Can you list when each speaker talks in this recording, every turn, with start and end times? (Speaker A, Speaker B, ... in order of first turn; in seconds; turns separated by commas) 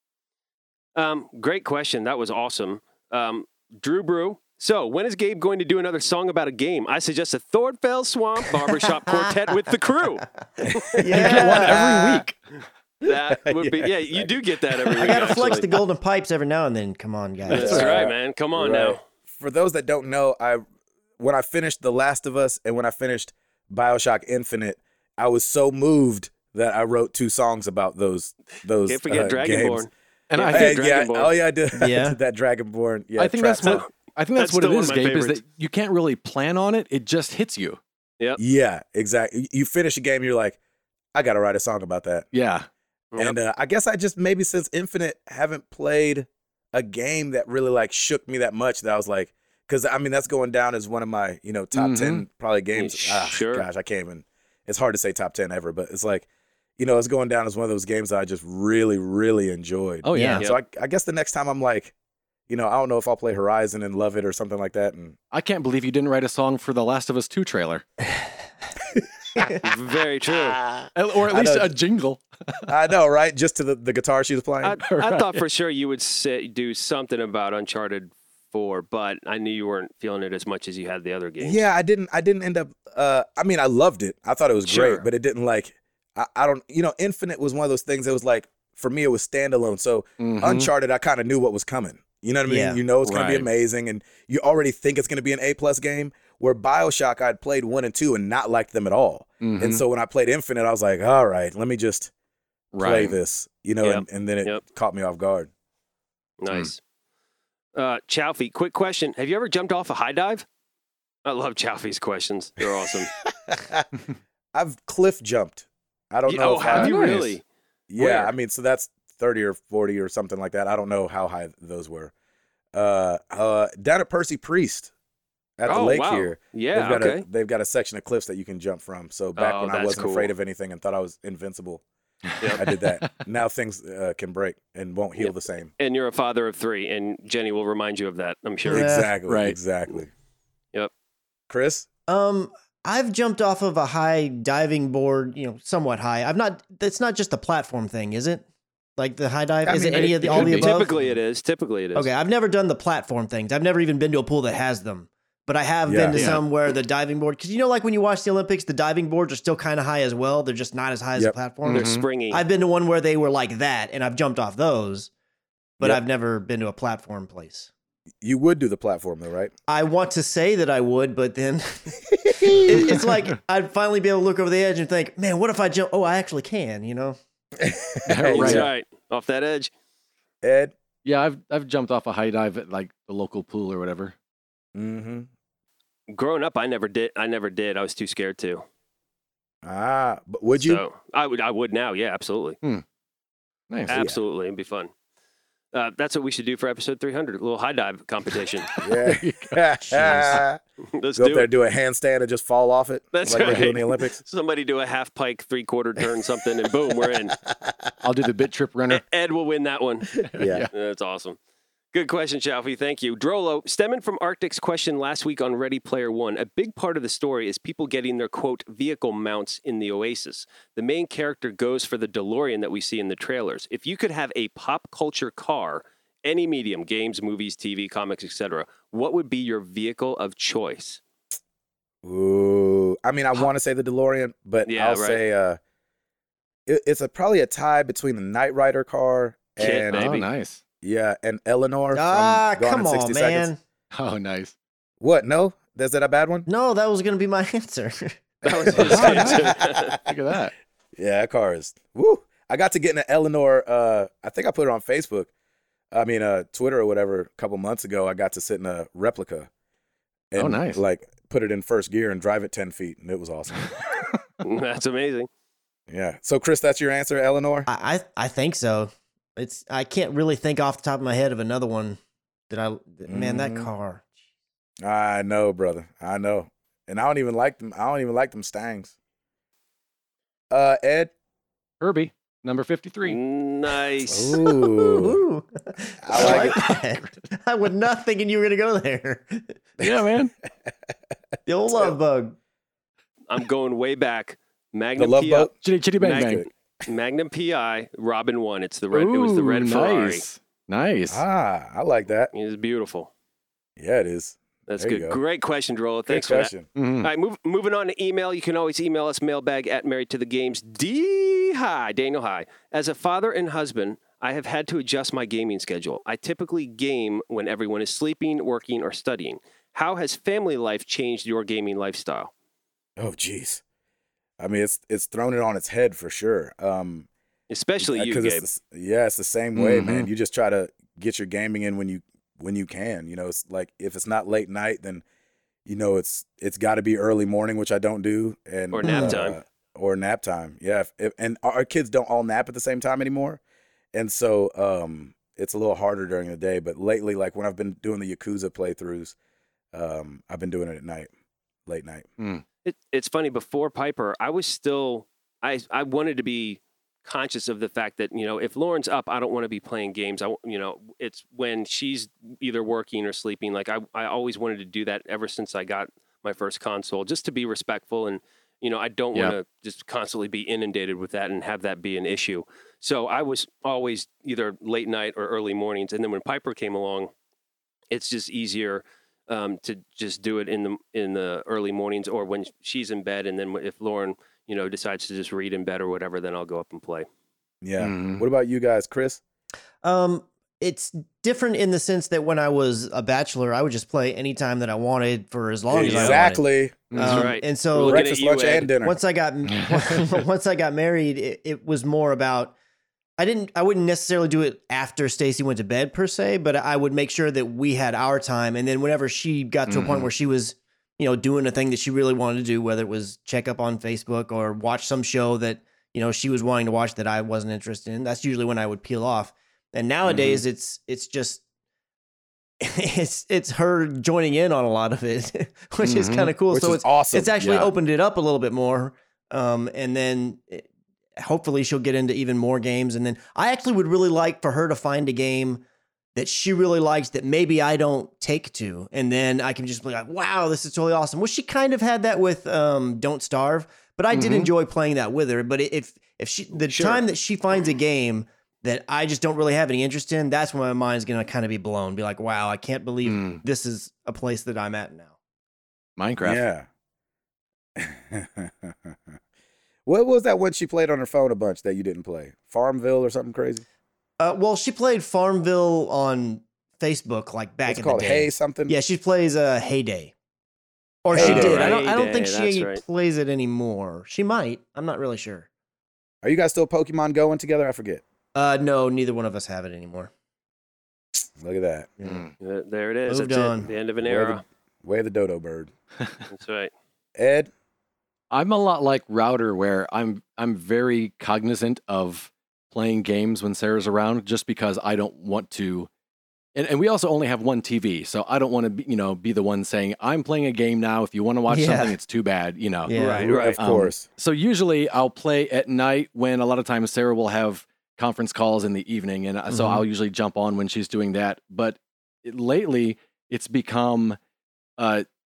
Speaker A: 1.0-10.9, Speaker B: 8.9-9.3, Speaker C: 10.6-12.2, Speaker B: 10.9-11.9, Speaker D: 11.1-12.4, Speaker C: 13.0-14.9, Speaker A: 13.0-15.7, Speaker B: 14.9-18.0, Speaker A: 17.5-19.0, Speaker C: 17.5-20.6, Speaker C: 21.2-29.9, Speaker A: 28.9-31.3, Speaker D: 30.3-30.8, Speaker C: 30.5-33.8, Speaker B: 31.8-32.2, Speaker D: 33.2-37.8, Speaker A: 33.6-35.4, Speaker C: 38.4-40.6, Speaker C: 41.1-42.3, Speaker D: 42.3-42.7, Speaker C: 43.2-56.3, Speaker D: 51.7-52.2, Speaker A: 52.8-53.7, Speaker C: 56.8-61.9, Speaker D: 60.0-60.4, Speaker B: 60.1-60.4, Speaker C: 62.5-65.2, Speaker D: 65.3-67.8, Speaker C: 69.0-69.4, Speaker A: 69.5-70.6, Speaker C: 70.3-71.7, Speaker D: 71.0-72.7, Speaker C: 72.7-74.8, Speaker A: 74.6-81.6, Speaker D: 74.9-75.4, Speaker C: 81.4-102.1, Speaker A: 84.7-85.0, Speaker D: 90.2-90.7, Speaker B: 92.5-92.8, Speaker D: 93.0-93.5, Speaker D: 99.4-99.8, Speaker D: 102.7-103.2, Speaker C: 102.8-105.5, Speaker A: 103.8-104.6, Speaker A: 106.4-106.8, Speaker A: 107.8-110.5, Speaker A: 111.2-113.1, Speaker C: 113.2-113.9, Speaker C: 114.5-117.0, Speaker A: 116.3-117.4, Speaker D: 116.7-117.4, Speaker C: 117.9-122.1, Speaker A: 118.0-118.3, Speaker C: 122.7-124.9, Speaker C: 125.6-131.8, Speaker A: 125.7-127.2, Speaker A: 129.4-130.3, Speaker D: 132.3-133.1, Speaker C: 132.6-135.7, Speaker A: 135.2-138.9, Speaker B: 138.6-139.1, Speaker C: 138.7-140.1, Speaker D: 139.3-139.6, Speaker C: 141.5-141.9, Speaker B: 142.1-148.4, Speaker B: 149.0-151.1, Speaker C: 149.7-150.6, Speaker A: 150.0-152.1, Speaker D: 150.2-150.7, Speaker B: 151.9-165.1, Speaker C: 155.9-156.4, Speaker D: 156.1-156.4, Speaker D: 161.6-162.1, Speaker A: 161.7-162.4, Speaker B: 165.8-167.7, Speaker C: 168.2-169.5, Speaker B: 169.7-177.2, Speaker C: 172.1-173.0, Speaker C: 177.6-178.7, Speaker D: 178.1-178.7, Speaker A: 178.3-179.7, Speaker C: 180.4-180.7, Speaker D: 181.1-184.2, Speaker C: 184.8-185.3, Speaker A: 186.1-188.6, Speaker C: 189.6-190.8, Speaker A: 190.6-192.6, Speaker D: 193.7-194.0, Speaker A: 193.9-194.9, Speaker C: 193.9-194.2, Speaker A: 195.7-198.7, Speaker C: 198.8-200.6, Speaker D: 199.0-200.4, Speaker A: 200.9-201.5, Speaker C: 201.2-204.2, Speaker A: 203.1-207.3, Speaker C: 207.1-207.9, Speaker D: 208.0-209.0, Speaker A: 208.9-211.4, Speaker C: 210.3-210.7, Speaker D: 210.3-210.7, Speaker A: 211.9-231.0, Speaker C: 232.0-235.6, Speaker A: 234.7-235.2, Speaker C: 236.7-240.1, Speaker A: 239.6-240.3, Speaker D: 239.9-240.6, Speaker C: 240.8-243.5, Speaker B: 241.9-243.6, Speaker D: 243.9-244.5, Speaker C: 245.0-246.5, Speaker B: 246.5-248.9, Speaker A: 248.4-250.0, Speaker C: 248.7-250.0, Speaker D: 248.8-250.5, Speaker C: 251.0-255.3, Speaker C: 255.9-259.5, Speaker C: 260.3-263.7, Speaker D: 260.4-260.8, Speaker A: 264.4-265.3, Speaker C: 265.9-267.7, Speaker B: 267.7-272.0, Speaker B: 272.5-274.1, Speaker C: 273.1-273.7, Speaker C: 274.8-278.9, Speaker C: 280.5-281.1, Speaker D: 281.8-283.2, Speaker A: 283.1-284.4, Speaker C: 284.1-285.2, Speaker B: 284.4-289.6, Speaker C: 286.1-286.6, Speaker D: 286.1-287.1, Speaker D: 289.8-290.3, Speaker B: 291.5-292.4, Speaker A: 293.3-300.2, Speaker C: 295.0-295.5, Speaker D: 295.6-296.5, Speaker C: 296.1-296.4, Speaker D: 298.9-301.2, Speaker C: 301.1-302.3, Speaker A: 302.3-303.1, Speaker C: 303.8-305.2, Speaker A: 304.7-306.5, Speaker C: 306.1-306.7, Speaker D: 306.8-307.1, Speaker A: 307.0-322.3, Speaker C: 323.0-323.6, Speaker C: 324.4-327.1, Speaker A: 327.5-328.4, Speaker C: 327.8-335.0, Speaker D: 329.5-330.1, Speaker C: 335.7-343.4, Speaker A: 338.7-339.4, Speaker B: 338.8-339.2, Speaker C: 343.9-349.1, Speaker C: 349.7-351.1, Speaker C: 351.7-352.1, Speaker A: 352.6-377.1, Speaker A: 377.9-387.1, Speaker C: 387.6-389.2, Speaker D: 387.8-388.3, Speaker B: 389.8-398.1, Speaker C: 395.7-397.0, Speaker A: 395.8-396.2, Speaker D: 396.9-397.3, Speaker A: 397.0-398.7, Speaker C: 397.8-399.0, Speaker B: 398.8-402.5, Speaker D: 399.5-400.2, Speaker B: 403.2-421.4, Speaker D: 409.7-410.1, Speaker D: 420.1-420.4, Speaker B: 422.6-430.7, Speaker D: 425.8-426.3, Speaker C: 426.5-427.4, Speaker D: 427.4-427.7, Speaker B: 431.2-435.6, Speaker B: 436.1-455.1, Speaker D: 444.1-444.5, Speaker A: 446.6-447.0, Speaker D: 453.0-453.4, Speaker D: 456.0-456.4, Speaker C: 456.2-456.7, Speaker C: 457.8-459.1, Speaker C: 459.9-463.6, Speaker B: 464.2-470.1, Speaker C: 467.7-468.8, Speaker B: 471.0-475.5, Speaker C: 471.1-471.8, Speaker A: 471.1-472.8, Speaker C: 476.2-478.0, Speaker B: 478.3-480.1, Speaker C: 481.4-481.9, Speaker D: 482.0-482.3, Speaker A: 482.4-484.4, Speaker B: 483.1-483.7, Speaker C: 484.0-485.7, Speaker A: 486.3-486.7, Speaker C: 487.2-487.5, Speaker D: 488.3-495.9, Speaker D: 496.6-502.9, Speaker B: 501.5-502.0, Speaker B: 502.9-503.4, Speaker A: 503.0-503.6, Speaker C: 503.2-504.1, Speaker D: 503.6-514.2, Speaker B: 509.5-509.8, Speaker D: 514.8-515.1